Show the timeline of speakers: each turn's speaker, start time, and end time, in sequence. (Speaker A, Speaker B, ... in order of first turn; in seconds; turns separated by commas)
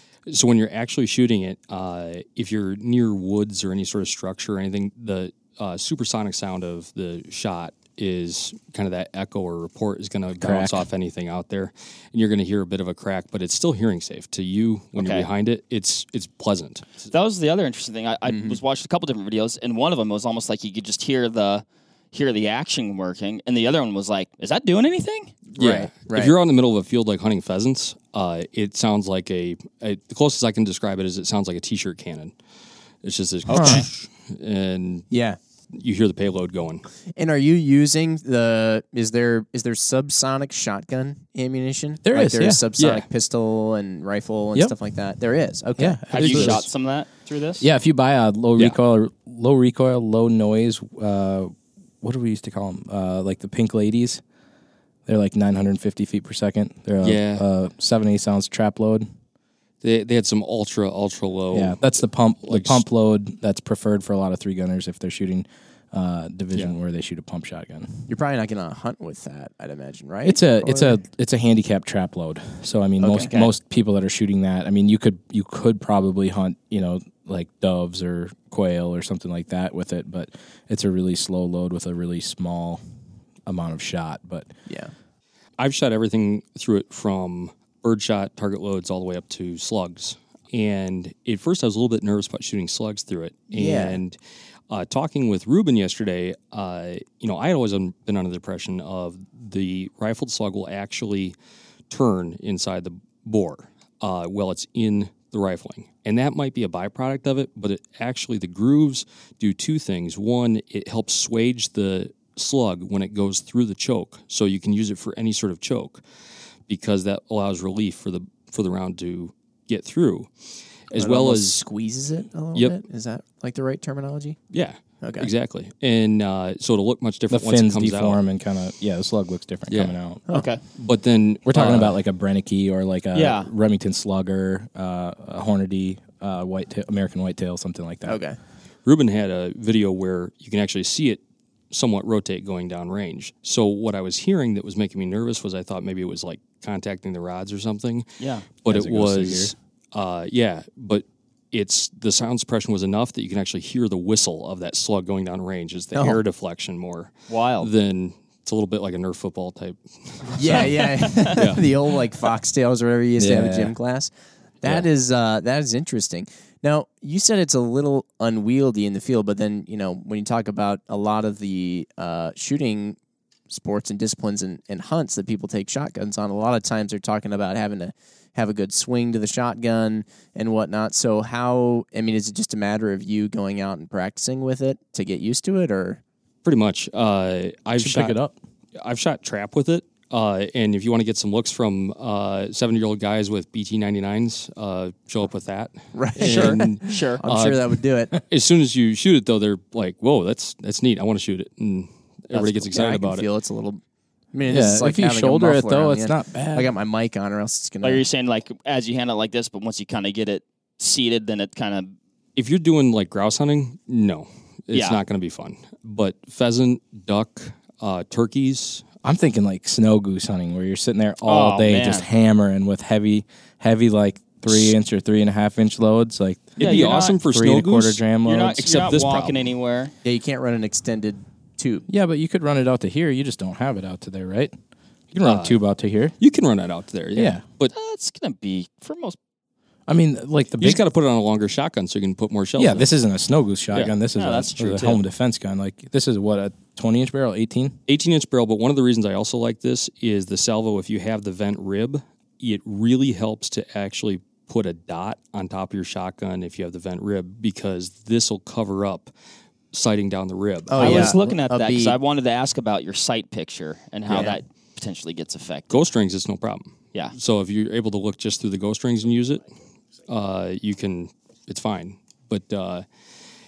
Speaker A: 0.3-17.1, Speaker B: 10.4-10.9, Speaker C: 15.0-15.3, Speaker C: 17.1-25.4, Speaker D: 18.3-18.6, Speaker D: 25.5-26.4, Speaker A: 25.6-32.4, Speaker A: 33.0-35.1, Speaker C: 33.5-33.8, Speaker D: 33.5-33.8, Speaker D: 35.1-35.4, Speaker A: 35.7-36.8, Speaker D: 37.2-46.0, Speaker B: 42.0-42.6, Speaker A: 42.8-43.1, Speaker B: 45.8-46.7, Speaker C: 46.1-47.7, Speaker A: 46.2-46.7, Speaker B: 47.6-51.5, Speaker B: 52.0-54.2, Speaker B: 55.1-59.1, Speaker A: 57.0-57.4, Speaker A: 59.8-62.9, Speaker B: 61.5-68.1, Speaker A: 66.5-66.8, Speaker D: 68.1-71.0, Speaker B: 70.2-82.8, Speaker D: 73.0-73.4, Speaker C: 73.2-73.5, Speaker B: 83.5-84.5, Speaker D: 84.7-84.9, Speaker A: 85.6-94.2, Speaker D: 93.5-94.0, Speaker A: 94.7-101.4, Speaker A: 101.9-116.0, Speaker A: 116.7-120.3, Speaker A: 120.9-121.6, Speaker D: 120.9-124.4, Speaker A: 124.5-128.2, Speaker D: 125.0-125.3, Speaker B: 127.3-130.2, Speaker A: 129.7-130.0, Speaker C: 130.3-130.6, Speaker A: 130.8-132.0, Speaker B: 131.5-138.2, Speaker C: 133.2-133.5, Speaker D: 138.1-138.4, Speaker A: 138.8-161.7, Speaker C: 148.2-148.5, Speaker B: 148.7-149.5, Speaker D: 155.9-156.2, Speaker C: 157.3-157.7, Speaker D: 160.4-164.1, Speaker B: 163.2-163.8, Speaker D: 164.6-173.0, Speaker D: 173.5-186.0, Speaker A: 186.4-188.2, Speaker B: 187.8-188.4, Speaker A: 188.8-203.3, Speaker D: 195.9-198.1, Speaker C: 196.2-197.2, Speaker D: 202.3-203.8, Speaker D: 204.3-208.1, Speaker B: 204.5-206.7, Speaker C: 207.8-211.9, Speaker A: 212.4-218.8, Speaker C: 214.7-215.0, Speaker B: 219.0-228.7, Speaker C: 221.3-222.1, Speaker A: 226.6-229.5, Speaker C: 226.6-227.2, Speaker C: 228.2-229.9, Speaker D: 230.0-231.8, Speaker B: 231.9-234.5, Speaker B: 235.1-236.2, Speaker A: 235.2-235.6, Speaker A: 236.2-237.7, Speaker B: 237.2-237.5, Speaker C: 237.7-239.2, Speaker B: 239.9-240.8, Speaker A: 240.6-242.9, Speaker B: 242.6-247.8, Speaker A: 243.7-244.0, Speaker C: 244.2-245.0, Speaker A: 247.9-259.1, Speaker A: 259.7-261.1, Speaker D: 260.7-262.0, Speaker C: 260.8-265.9, Speaker A: 264.1-264.4, Speaker D: 264.1-264.4, Speaker A: 265.7-269.5, Speaker A: 270.1-272.9